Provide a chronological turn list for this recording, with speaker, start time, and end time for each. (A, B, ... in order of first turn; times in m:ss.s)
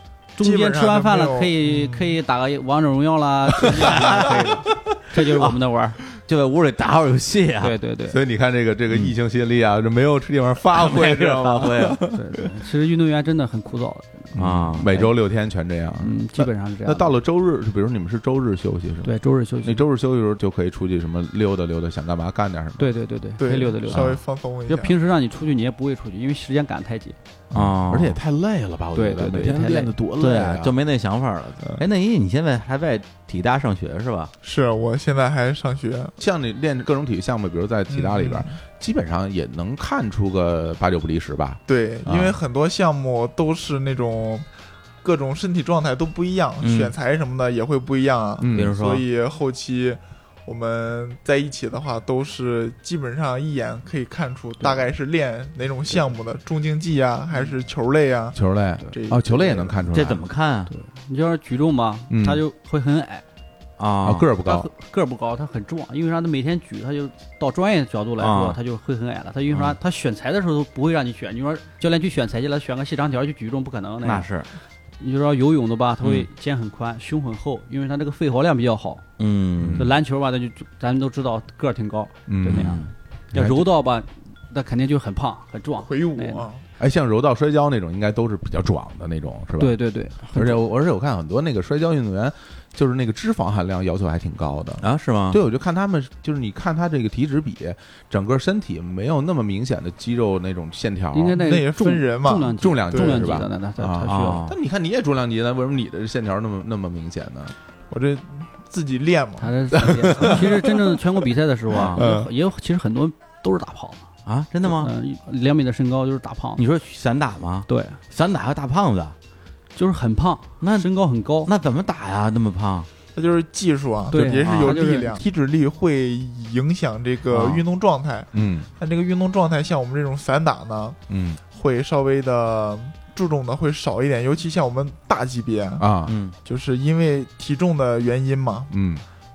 0:00.4-0:06.0 A
0:00.4-0:01.6 B
0:04.0-0:04.3 C
0:05.3-0:05.6 C
0:06.2-0:07.8 C
0:07.6-0:08.2 A
0:08.1-0:12.1 D
0:10.7-0:12.0 C
0:12.1-0:15.1 A
0:14.3-0:22.9 D
0:14.4-0:14.9 C
0:16.0-0:17.1 A
0:19.0-0:19.8 A
0:22.8-0:24.1 A
0:23.4-0:25.0 B
0:23.9-0:24.2 D
0:24.7-0:27.2 A
0:27.5-0:30.7 D
0:27.5-0:28.2 C
0:29.0-0:29.9 A
0:30.2-0:34.3 C
0:34.4-0:36.1 B
0:36.2-0:42.4 D
0:37.9-0:38.5 B
0:41.7-0:44.4 B
0:45.0-0:58.4 B
0:46.6-0:46.9 C
0:48.4-0:48.7 D
0:48.5-0:49.0 C
0:58.3-1:00.2 D
0:58.9-0:59.8 B
0:59.9-1:00.7 C
1:00.7-1:03.2 A
1:02.1-1:02.4 D
1:03.8-1:04.3 C
1:04.0-1:04.7 D
1:04.4-1:14.3 A
1:08.2-1:08.6 C
1:09.5-1:09.8 C
1:14.0-1:14.5 C
1:15.0-1:19.0 A
1:19.2-1:19.9 C
1:19.6-1:19.9 D
1:19.8-1:26.4 A
1:22.3-1:23.7 D
1:22.5-1:22.9 C
1:25.8-1:26.6 B
1:26.8-1:29.8 D
1:29.6-1:30.6 A
1:30.3-1:41.4 D
1:34.8-1:35.4 C
1:41.1-1:44.4 A
1:41.3-1:43.3 B
1:42.6-1:47.6 D
1:44.1-1:44.6 C
1:47.9-1:50.4 B
1:49.4-1:54.1 A
1:49.8-1:50.5 D
1:51.7-1:52.0 C
1:52.0-1:52.3 B
1:54.3-1:54.9 C
1:54.6-1:56.6 A
1:56.6-1:59.1 C
1:57.7-1:58.0 A
1:59.8-2:01.5 A
2:00.6-2:00.9 C
2:01.4-2:02.9 C
2:03.2-2:11.0 B
2:04.1-2:05.2 A
2:04.4-2:04.8 C
2:07.3-2:07.6 C
2:08.3-2:08.7 D
2:11.1-2:11.4 D
2:11.5-2:15.9 B
2:15.8-2:16.2 D
2:16.1-2:16.3 C
2:16.4-2:18.7 B
2:18.7-2:19.0 D